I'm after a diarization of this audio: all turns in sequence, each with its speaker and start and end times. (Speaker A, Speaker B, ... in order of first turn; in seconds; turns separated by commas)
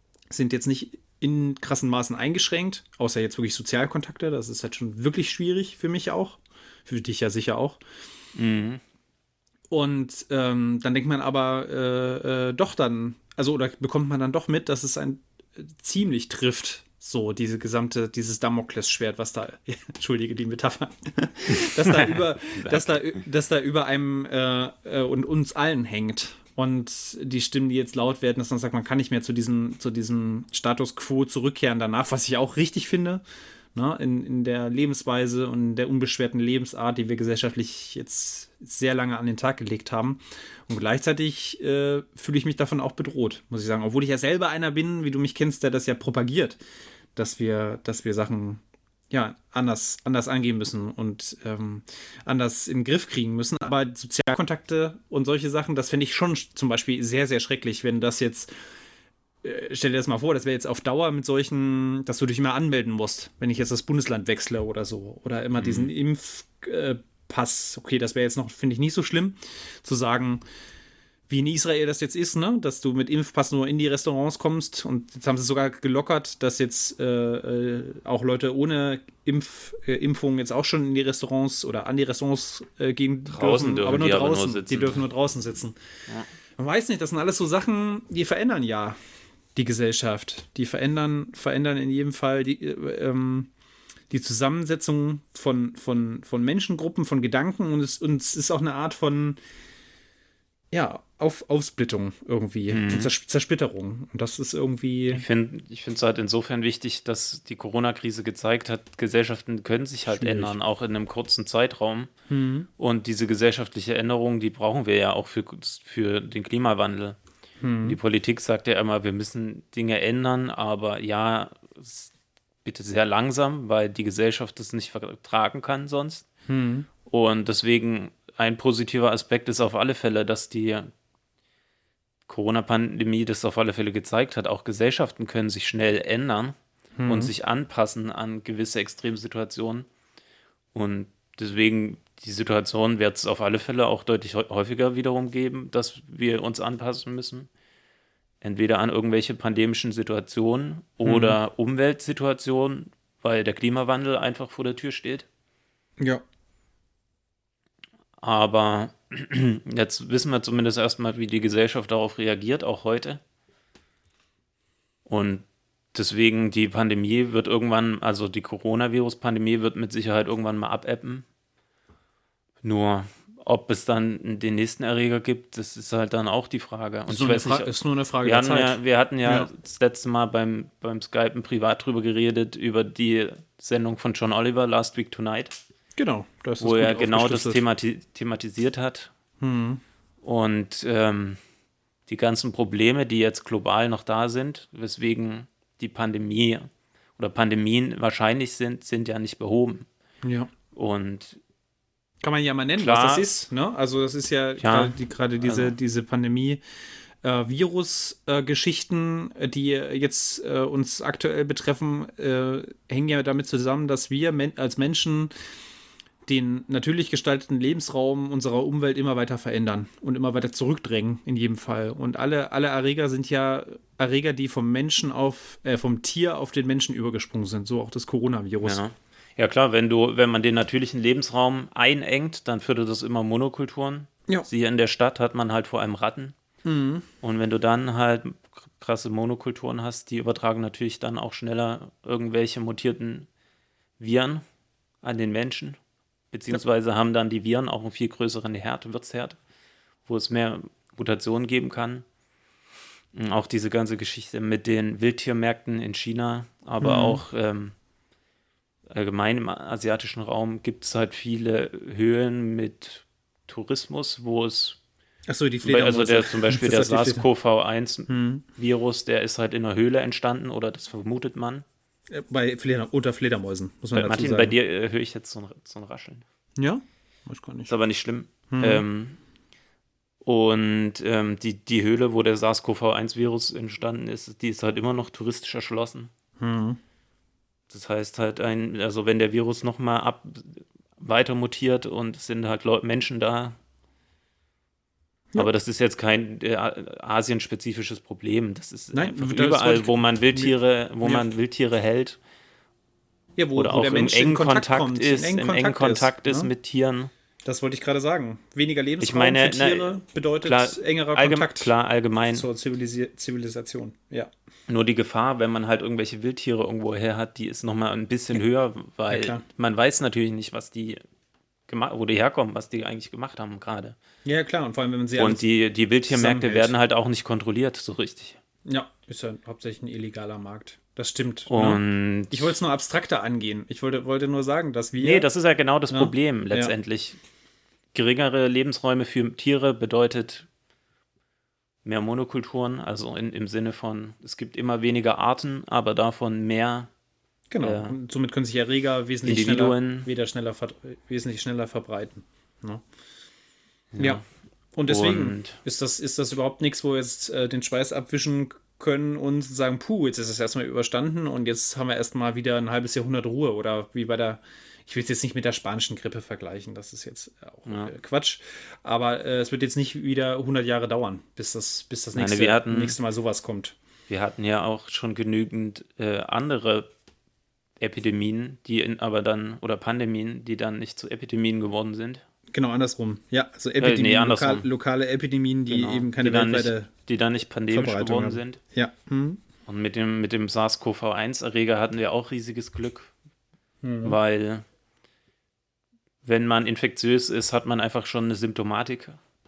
Speaker A: 0.3-7.8, Speaker B: 8.3-8.8, Speaker A: 9.7-33.2, Speaker B: 21.5-23.2, Speaker A: 33.7-46.6, Speaker A: 47.1-58.5, Speaker A: 59.4-70.4, Speaker B: 65.6-65.9, Speaker A: 71.3-85.8, Speaker B: 83.3-85.0, Speaker A: 86.6-89.0, Speaker A: 89.5-93.5, Speaker A: 94.1-99.4, Speaker A: 100.7-105.2, Speaker B: 102.7-103.1, Speaker B: 105.1-112.1, Speaker A: 110.1-110.6, Speaker A: 112.3-112.7, Speaker B: 112.8-117.2, Speaker A: 117.6-118.0, Speaker B: 117.8-122.1, Speaker B: 122.6-126.2, Speaker A: 126.5-126.9, Speaker B: 127.1-130.9, Speaker B: 132.3-139.9, Speaker A: 137.0-137.3, Speaker B: 140.7-147.5, Speaker B: 148.4-155.3, Speaker A: 151.0-151.4, Speaker B: 158.2-163.2, Speaker B: 165.1-171.2, Speaker B: 172.6-177.7, Speaker A: 177.1-179.5, Speaker B: 178.2-185.6, Speaker A: 185.9-187.6, Speaker B: 186.6-189.1, Speaker A: 189.4-189.8, Speaker B: 190.2-191.4, Speaker B: 192.1-199.9, Speaker A: 200.2-200.5, Speaker B: 200.7-201.4, Speaker A: 202.2-206.6, Speaker B: 202.8-203.2, Speaker B: 204.6-205.7, Speaker A: 207.2-215.3, Speaker A: 216.2-228.8, Speaker B: 228.6-236.4, Speaker A: 236.6-237.1, Speaker B: 237.2-243.3, Speaker B: 244.0-244.4, Speaker B: 245.0-245.8, Speaker B: 246.3-249.4, Speaker B: 250.1-252.1, Speaker B: 253.1-257.7, Speaker A: 256.8-257.2, Speaker B: 258.9-264.8, Speaker A: 265.3-267.2, Speaker B: 265.6-271.6, Speaker A: 268.1-268.4, Speaker A: 272.1-274.5, Speaker B: 273.9-276.2, Speaker A: 276.6-277.7, Speaker B: 277.7-279.2, Speaker A: 278.5-278.8, Speaker B: 280.2-286.1, Speaker A: 286.4-286.8, Speaker B: 287.7-293.6, Speaker B: 295.4-302.2, Speaker A: 298.9-301.2, Speaker A: 303.4-306.5, Speaker B: 303.6-307.1, Speaker A: 307.4-311.7, Speaker B: 309.0-312.4, Speaker A: 312.3-314.3, Speaker B: 314.7-321.0, Speaker A: 319.1-319.4, Speaker B: 321.7-323.9, Speaker A: 324.2-325.4, Speaker B: 325.2-328.4, Speaker A: 326.1-326.7, Speaker A: 328.6-335.3, Speaker B: 331.5-332.6, Speaker B: 335.0-337.2, Speaker A: 335.9-336.7, Speaker B: 337.9-340.5, Speaker B: 341.9-346.9, Speaker A: 347.5-352.8, Speaker B: 347.6-348.0, Speaker B: 349.2-350.1, Speaker B: 353.9-354.2, Speaker A: 354.7-373.7, Speaker B: 354.9-355.6, Speaker B: 367.6-367.9, Speaker B: 372.1-373.0, Speaker B: 374.1-376.9, Speaker B: 377.8-382.2, Speaker A: 382.5-386.9, Speaker B: 383.8-384.7, Speaker B: 385.7-388.6, Speaker A: 387.7-389.4, Speaker B: 389.6-393.1, Speaker A: 393.8-394.2, Speaker B: 394.0-394.6, Speaker B: 396.2-399.2